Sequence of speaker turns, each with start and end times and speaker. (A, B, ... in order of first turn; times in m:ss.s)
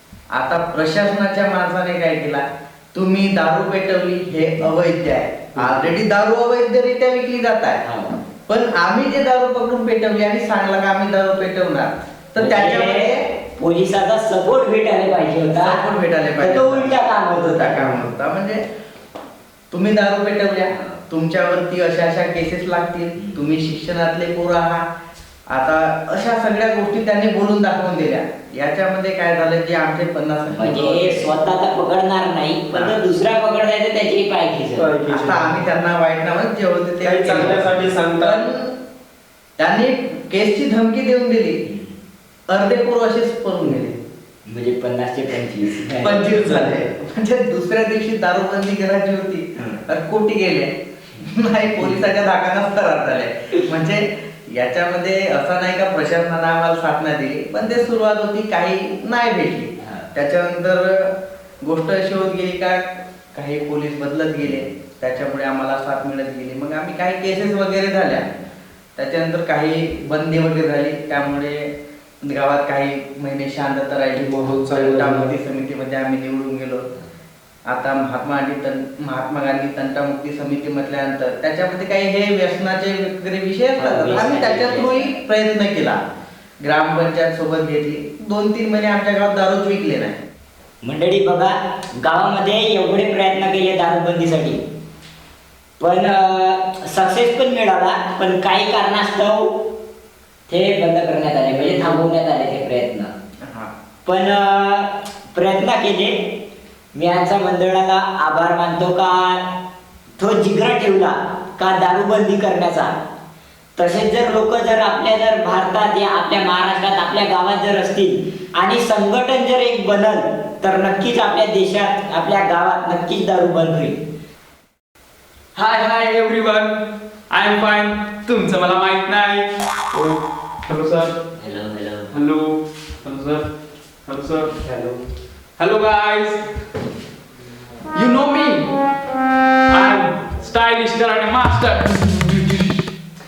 0:00.3-0:07.8 A
0:05.6-0:05.9 B
0:07.8-0:08.2 C
0:08.5-0:13.2 A
0:12.4-0:15.8 C
0:15.6-0:18.6 A
0:16.4-0:18.0 C
0:19.7-0:24.8 A
0:20.7-0:21.0 C
0:25.5-0:31.3 A
0:30.5-0:34.9 C
0:32.7-0:33.0 A
0:34.8-0:35.6 B
0:35.1-0:38.7 A
0:37.0-0:38.4 B
0:39.6-0:41.6 A
0:41.6-0:41.9 C
0:42.5-0:44.0 A
0:44.5-0:46.4 C
0:46.0-1:08.3 A
0:59.8-1:00.1 C
1:09.0-1:11.7 A
1:12.2-1:16.9 A
1:14.2-1:15.3 B
1:17.7-1:26.0 A
1:23.8-1:25.2 C
1:26.6-1:30.2 A
1:30.8-1:34.6 C
1:35.8-1:39.7 C
1:40.5-1:43.1 C
1:43.4-1:43.7 A
1:44.0-1:46.2 C
1:46.9-1:49.5 C
1:50.2-1:52.9 C
1:53.8-2:04.0 C
2:05.6-2:11.1 D
2:11.4-2:12.1 C
2:12.1-2:13.4 D
2:14.1-2:14.5 D
2:14.6-2:15.0 B
2:15.6-2:16.4 D
2:17.9-2:18.7 D
2:19.7-2:22.8 D